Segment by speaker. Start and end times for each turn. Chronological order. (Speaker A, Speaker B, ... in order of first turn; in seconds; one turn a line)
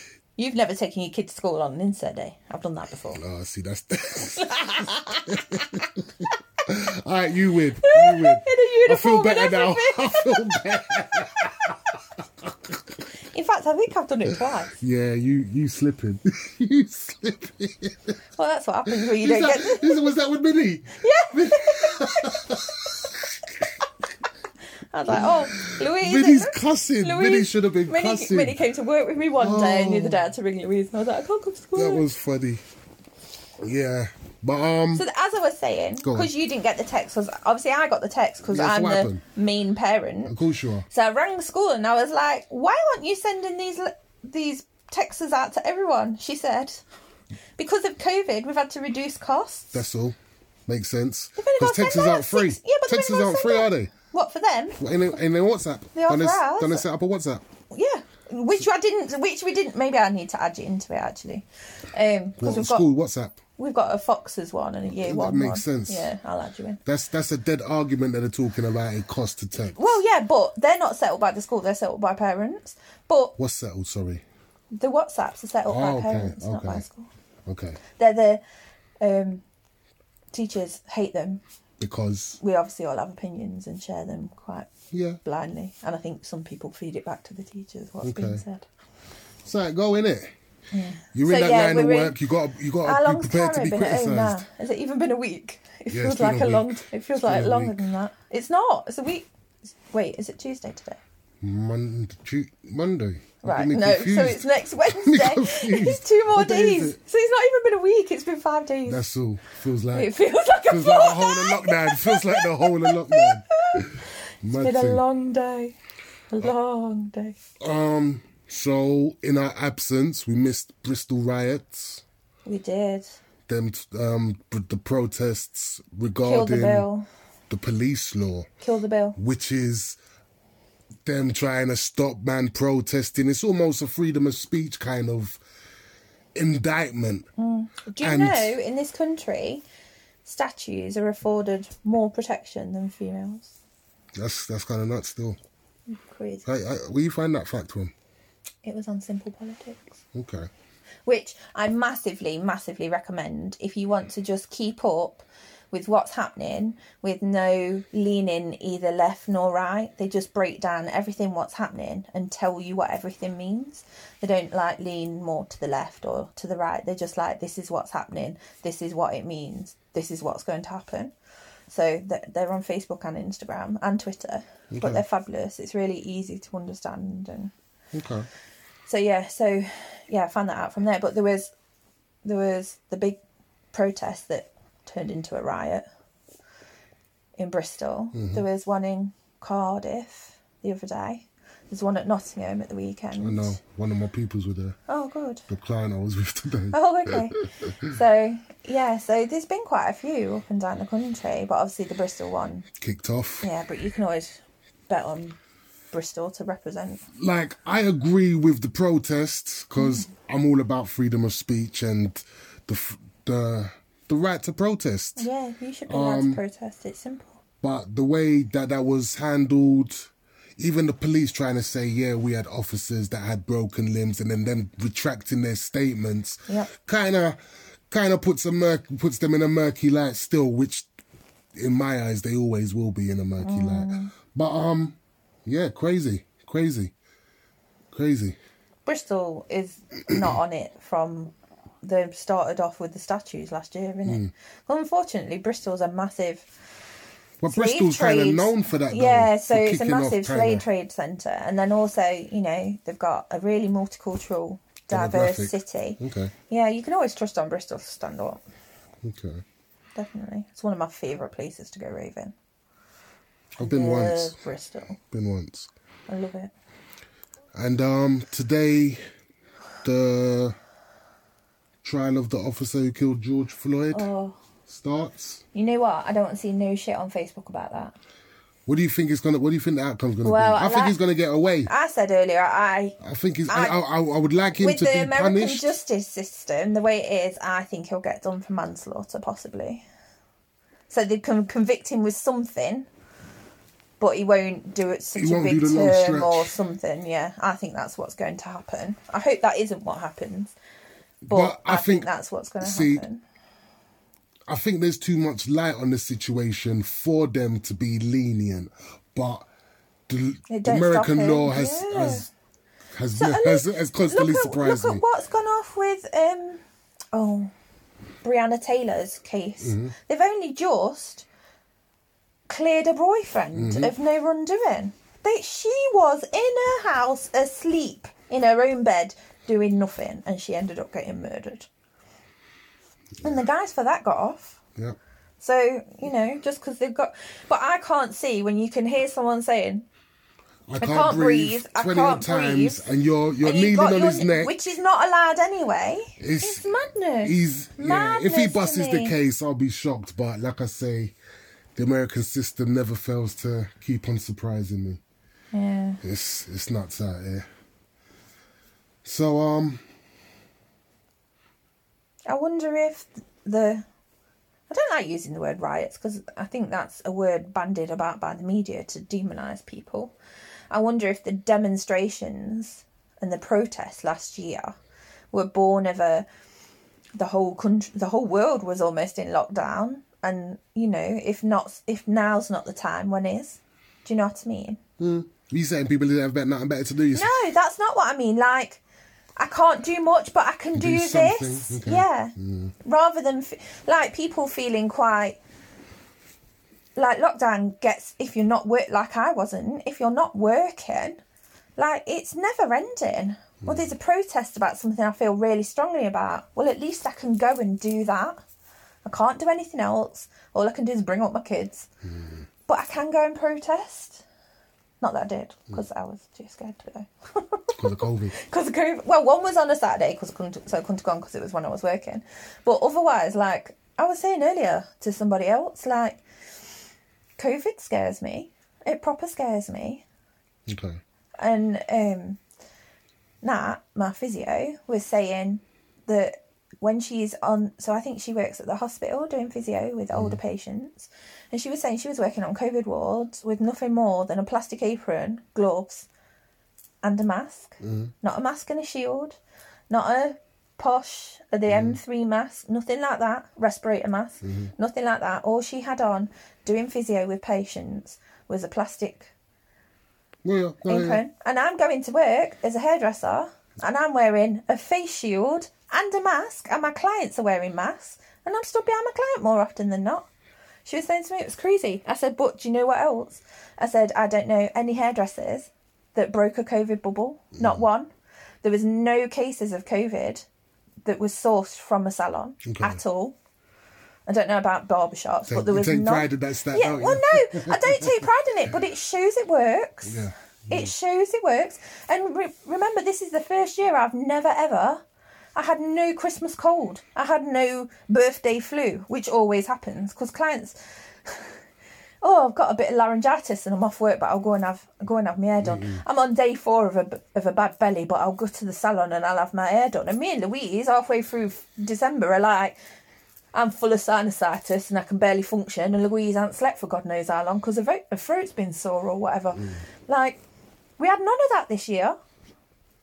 Speaker A: 0.4-3.2
Speaker B: 3.1-13.0
Speaker A: 4.3-5.7
Speaker A: 7.8-11.5
Speaker A: 13.3-14.8
Speaker B: 14.7-18.1
Speaker A: 18.4-20.1
Speaker B: 18.9-23.6
Speaker A: 20.9-22.7
Speaker A: 24.9-32.0
Speaker B: 25.1-28.6
Speaker B: 29.4-30.2
Speaker B: 31.7-32.6
Speaker B: 33.6-35.0
Speaker A: 34.9-40.4
Speaker B: 36.0-36.3
Speaker B: 38.5-39.2
Speaker B: 40.3-40.9
Speaker A: 40.9-46.8
Speaker A: 47.6-49.8
Speaker B: 49.7-53.9
Speaker A: 51.4-54.8
Speaker B: 54.8-57.4
Speaker A: 55.9-56.9
Speaker A: 57.7-62.9
Speaker B: 62.4-63.4
Speaker A: 63.6-66.8
Speaker B: 64.9-66.1
Speaker B: 66.8-70.0
Speaker A: 69.6-73.3
Speaker B: 73.4-74.2
Speaker A: 74.7-77.1
Speaker B: 75.7-76.8
Speaker B: 77.5-77.8
Speaker A: 77.9-78.4
Speaker A: 79.0-79.4
Speaker A: 80.3-81.4
Speaker B: 81.8-82.4
Speaker A: 82.4-84.7
Speaker B: 84.9-85.2
Speaker A: 85.2-88.7
Speaker B: 88.0-88.4
Speaker B: 89.4-90.3
Speaker A: 90.7-92.2
Speaker B: 91.1-94.4
Speaker A: 92.8-99.3
Speaker B: 95.9-97.8
Speaker A: 99.8-101.0
Speaker B: 101.4-107.0
Speaker A: 103.4-109.0
Speaker B: 108.9-110.1
Speaker A: 109.9-114.0
Speaker B: 110.7-115.0
Speaker A: 114.5-115.8
Speaker A: 116.3-117.3
Speaker B: 117.6-122.0
Speaker A: 122.5-123.2
Speaker B: 123.5-126.9
Speaker A: 126.2-127.0
Speaker B: 127.5-128.5
Speaker A: 128.6-129.2
Speaker B: 129.2-130.0
Speaker B: 131.0-135.4
Speaker B: 136.3-137.3
Speaker A: 137.4-139.6
Speaker B: 138.0-138.6
Speaker A: 140.2-143.5
Speaker B: 144.2-145.4
Speaker A: 145.9-146.4
Speaker B: 146.4-147.9
Speaker A: 148.6-150.0
Speaker B: 150.1-150.5
Speaker A: 151.1-171.1
Speaker A: 171.7-177.5
Speaker B: 174.7-175.0
Speaker B: 177.9-178.3
Speaker A: 178.9-181.5
Speaker A: 182.2-183.2
Speaker A: 183.7-185.8
Speaker A: 187.4-193.6
Speaker B: 188.1-188.4
Speaker B: 193.2-194.8
Speaker A: 194.9-195.4
Speaker B: 195.5-197.9
Speaker A: 196.7-202.7
Speaker B: 202.8-203.5
Speaker A: 203.4-205.4
Speaker A: 205.9-207.0
Speaker B: 207.1-215.3
Speaker A: 209.8-210.1
Speaker A: 215.2-217.4
Speaker B: 215.9-216.4
Speaker B: 217.6-227.4
Speaker B: 227.9-230.9
Speaker B: 231.5-236.9
Speaker A: 233.4-234.1
Speaker B: 237.9-238.4
Speaker A: 238.8-246.5
Speaker B: 244.1-244.3
Speaker B: 247.4-250.7
Speaker A: 247.5-258.4
Speaker B: 254.9-256.3
Speaker B: 259.0-259.4
Speaker A: 259.9-262.3
Speaker B: 263.6-264.4
Speaker A: 263.6-265.0
Speaker B: 265.1-265.7
Speaker A: 266.1-266.5
Speaker B: 267.5-269.0
Speaker B: 269.8-270.6
Speaker B: 271.8-274.1
Speaker A: 273.9-274.4
Speaker B: 274.7-275.4
Speaker A: 275.5-277.9
Speaker B: 278.6-281.7
Speaker A: 280.2-281.0
Speaker A: 281.7-283.8
Speaker B: 283.0-285.8
Speaker A: 284.6-289.8
Speaker A: 290.9-292.9
Speaker A: 294.0-300.5
Speaker B: 295.1-296.5
Speaker B: 301.3-302.1
Speaker A: 301.3-303.2
Speaker B: 302.6-303.0
Speaker B: 304.5-309.4
Speaker B: 310.1-312.3
Speaker A: 310.5-312.3
Speaker B: 312.9-315.0
Speaker A: 313.1-316.6
Speaker A: 317.1-317.5
Speaker A: 318.2-321.2
Speaker B: 319.6-319.9
Speaker A: 322.5-331.7
Speaker B: 323.5-323.9
Speaker A: 333.2-334.6
Speaker A: 335.4-339.9
Speaker B: 340.7-344.5
Speaker A: 340.8-342.9
Speaker A: 343.4-349.1
Speaker B: 346.2-346.7
Speaker B: 347.2-351.1
Speaker B: 351.8-355.0
Speaker A: 355.5-356.0
Speaker B: 356.0-357.4
Speaker B: 359.0-359.8
Speaker A: 362.3-363.8
Speaker A: 364.7-370.1
Speaker A: 370.7-374.8
Speaker A: 375.3-376.2
Speaker A: 377.2-384.8
Speaker B: 385.0-387.3
Speaker A: 387.1-388.8
Speaker A: 389.4-395.4
Speaker B: 390.7-392.7
Speaker A: 396.9-401.2
Speaker A: 401.8-408.4
Speaker B: 403.6-403.9
Speaker A: 409.0-411.9
Speaker B: 412.0-412.4
Speaker A: 412.7-414.2
Speaker A: 415.0-426.2
Speaker B: 417.8-418.3
Speaker A: 427.4-430.0
Speaker B: 430.7-431.0
Speaker A: 431.4-432.4
Speaker A: 433.4-446.1
Speaker B: 440.1-440.4
Speaker A: 447.0-449.4
Speaker B: 447.8-448.1
Speaker A: 449.9-459.3
Speaker B: 451.7-452.0
Speaker B: 454.4-454.7
Speaker B: 460.4-461.2
Speaker A: 460.9-470.3
Speaker A: 470.8-478.1
Speaker B: 477.6-477.8
Speaker A: 478.6-480.4
Speaker A: 481.0-483.4
Speaker B: 482.6-483.0
Speaker A: 484.3-495.0
Speaker B: 485.5-488.3
Speaker B: 490.0-490.9
Speaker A: 495.5-501.6
Speaker A: 502.2-512.8
Speaker B: 505.6-506.0
Speaker A: 513.5-520.4
Speaker B: 519.5-519.8
Speaker A: 521.0-522.2